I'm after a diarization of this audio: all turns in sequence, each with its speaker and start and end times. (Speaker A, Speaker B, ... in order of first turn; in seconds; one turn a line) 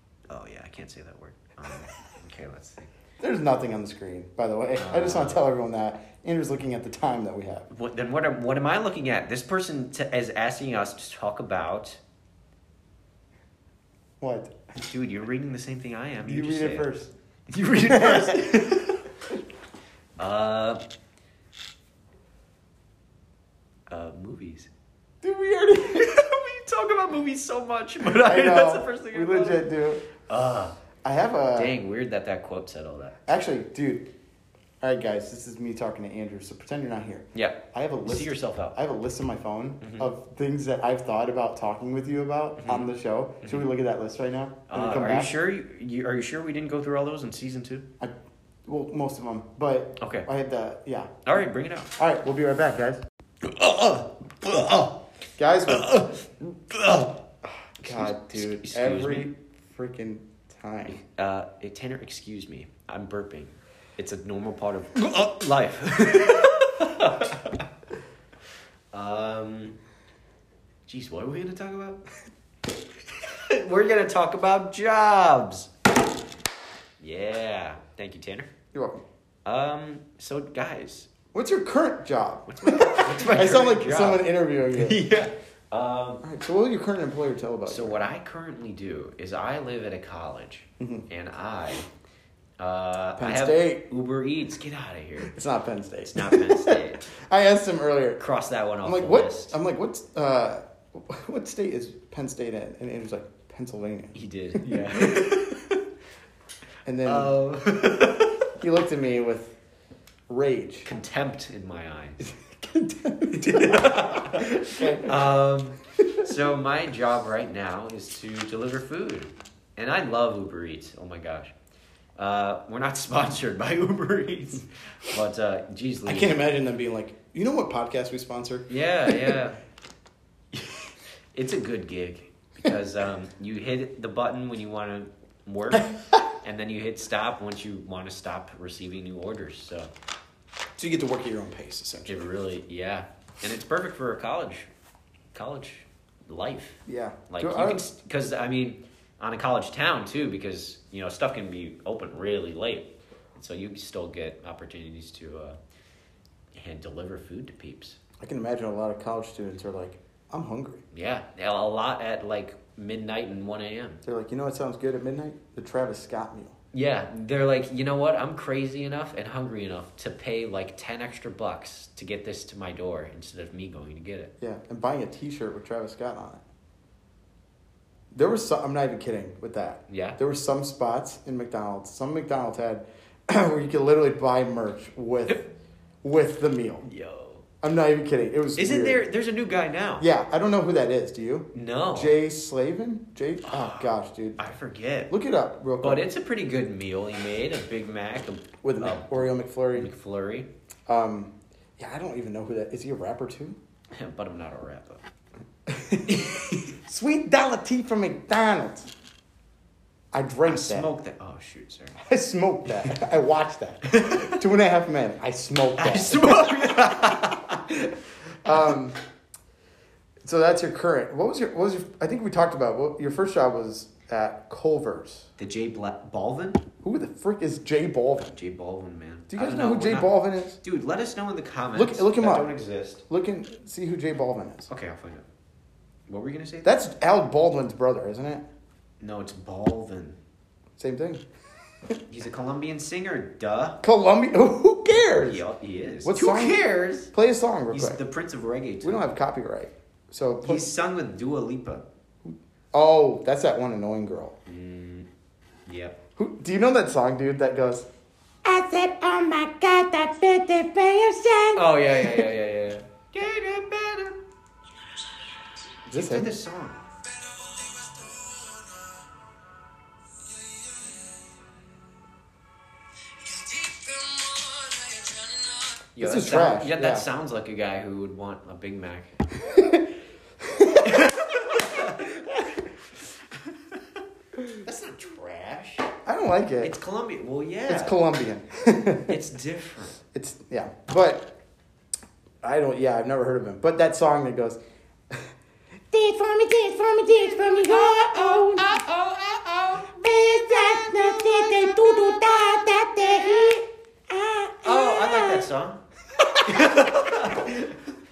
Speaker A: 0.3-2.9
Speaker B: 3.2-7.7
Speaker A: 4.8-5.5
Speaker A: 7.7-12.0
Speaker B: 14.2-14.6
Speaker A: 14.8-16.9
Speaker B: 16.2-17.1
Speaker A: 17.5-19.1
Speaker B: 17.8-18.9
Speaker A: 20.2-20.8
Speaker A: 23.9-24.7
Speaker B: 25.2-26.1
Speaker A: 25.9-30.8
Speaker B: 28.0-30.0
Speaker B: 31.0-31.7
Speaker A: 31.6-33.2
Speaker B: 33.3-34.1
Speaker B: 34.8-45.3
Speaker A: 37.4-38.8
Speaker A: 39.8-40.1
Speaker A: 42.6-43.7
Speaker A: 44.7-47.9
Speaker B: 48.7-51.2
Speaker A: 50.0-50.3
Speaker A: 51.2-51.9
Speaker B: 52.0-53.0
Speaker A: 53.4-55.0
Speaker B: 55.4-56.0
Speaker A: 55.7-57.2
Speaker A: 57.8-59.3
Speaker B: 57.8-61.0
Speaker A: 60.9-67.7
Speaker A: 68.9-69.8
Speaker A: 70.9-72.0
Speaker A: 73.2-75.7
Speaker A: 77.0-78.5
Speaker B: 78.7-79.0
Speaker A: 79.5-81.1
Speaker B: 81.3-85.0
Speaker A: 82.5-86.2
Speaker B: 86.2-88.0
Speaker A: 87.7-91.9
Speaker B: 90.8-91.1
Speaker A: 92.6-95.3
Speaker B: 93.2-93.8
Speaker B: 95.2-98.2
Speaker A: 96.1-97.1
Speaker A: 98.2-99.6
Speaker B: 98.8-105.4
Speaker A: 104.1-105.8
Speaker B: 106.8-107.4
Speaker A: 107.0-108.5
Speaker B: 108.5-109.5
Speaker B: 110.3-110.9
Speaker A: 110.8-112.3
Speaker B: 112.2-115.2
Speaker A: 113.3-121.5
Speaker A: 122.2-126.4
Speaker B: 126.1-129.4
Speaker A: 128.7-129.6
Speaker A: 131.3-139.9
Speaker B: 135.8-136.2
Speaker B: 140.8-142.2
Speaker A: 142.1-144.7
Speaker A: 145.3-155.6
Speaker B: 146.9-147.8
Speaker A: 156.5-158.0
Speaker B: 158.2-160.8
Speaker A: 160.9-164.0
Speaker B: 164.1-166.6
Speaker A: 166.7-174.3
Speaker B: 174.4-176.4
Speaker B: 178.1-185.5
Speaker A: 179.9-180.2
Speaker B: 186.0-186.8
Speaker A: 186.8-187.4
Speaker B: 187.6-189.0
Speaker A: 188.6-190.1
Speaker B: 190.0-194.4
Speaker A: 191.5-192.2
Speaker A: 193.4-195.1
Speaker B: 195.1-196.1
Speaker A: 195.8-200.5
Speaker B: 198.6-199.9
Speaker B: 200.9-203.6
Speaker A: 203.9-205.0
Speaker B: 205.7-208.9
Speaker A: 206.1-206.7
Speaker B: 210.1-210.9
Speaker A: 210.4-212.0
Speaker B: 212.0-217.1
Speaker A: 213.9-214.4
Speaker A: 215.8-217.8
Speaker B: 218.4-219.0
Speaker B: 220.2-225.3
Speaker A: 225.4-226.6
Speaker B: 226.8-228.4
Speaker A: 228.3-233.0
Speaker B: 229.3-230.6
Speaker B: 231.8-232.5
Speaker B: 233.1-234.7
Speaker A: 234.7-235.3
Speaker A: 236.1-236.7
Speaker B: 236.6-238.4
Speaker A: 239.0-240.2
Speaker B: 240.8-241.2
Speaker A: 242.1-243.8
Speaker B: 243.8-245.4
Speaker A: 245.2-247.1
Speaker B: 246.0-248.0
Speaker A: 247.7-249.1
Speaker B: 248.8-250.7
Speaker A: 250.4-251.8
Speaker B: 252.2-254.3
Speaker A: 254.5-255.1
Speaker A: 255.7-256.0
Speaker B: 256.2-257.9
Speaker C: 258.5-261.6
Speaker A: 261.5-264.2
Speaker A: 265.9-266.9
Speaker B: 265.9-266.3
Speaker A: 273.4-279.2
Speaker B: 276.0-277.1
Speaker B: 279.4-281.1
Speaker A: 280.8-284.0
Speaker A: 284.6-285.9
Speaker B: 286.1-286.7
Speaker A: 286.6-288.0
Speaker B: 287.7-289.2
Speaker A: 289.1-290.0
Speaker B: 290.1-291.3
Speaker B: 292.4-294.6
Speaker C: 295.9-298.9
Speaker B: 295.9-298.6
Speaker A: 298.2-300.0
Speaker C: 299.8-305.3
Speaker B: 300.9-303.6
Speaker A: 304.6-307.9
Speaker B: 306.5-307.5